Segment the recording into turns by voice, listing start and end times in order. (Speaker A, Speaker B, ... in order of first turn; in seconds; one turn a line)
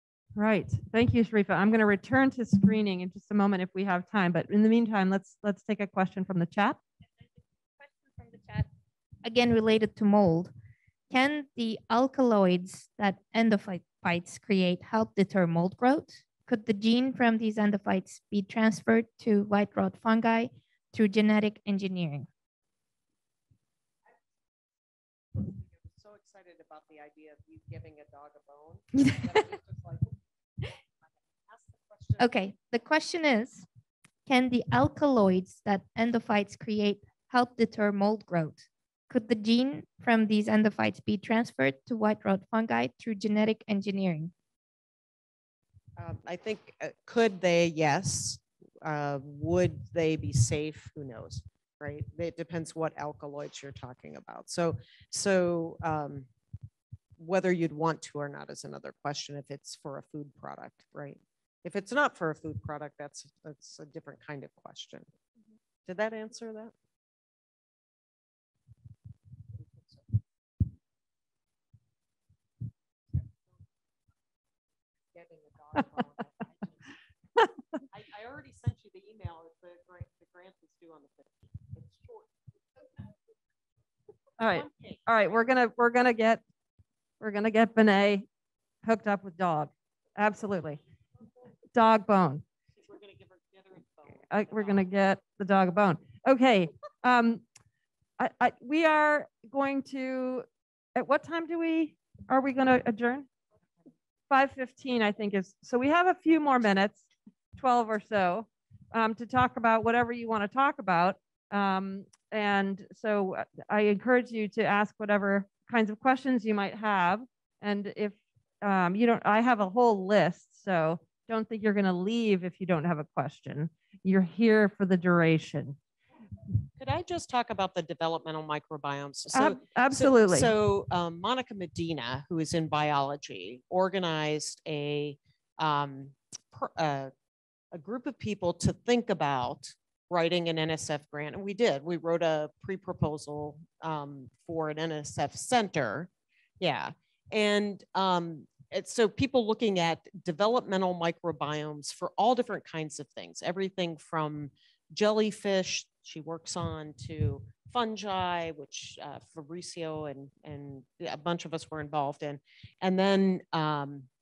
Speaker A: 0.3-6.8
Speaker B: 7.9-8.7
Speaker B: 9.2-10.5
Speaker B: 11.1-22.3
Speaker C: 25.4-30.1
Speaker C: 31.5-32.2
Speaker B: 32.2-33.6
Speaker B: 34.2-44.3
Speaker C: 46.0-56.3
Speaker C: 57.2-65.1
Speaker C: 65.8-66.7
Speaker C: 69.5-70.1
Speaker C: 75.1-76.7
Speaker C: 77.9-82.3
Speaker A: 84.4-86.4
Speaker C: 84.4-85.4
Speaker A: 87.2-88.3
Speaker A: 88.8-90.8
Speaker A: 91.7-92.4
Speaker C: 92.8-94.7
Speaker A: 94.3-97.4
Speaker A: 98.2-103.3
Speaker A: 104.3-107.0
Speaker A: 107.6-125.8
Speaker C: 126.8-137.1
Speaker A: 129.3-130.5
Speaker C: 137.7-164.1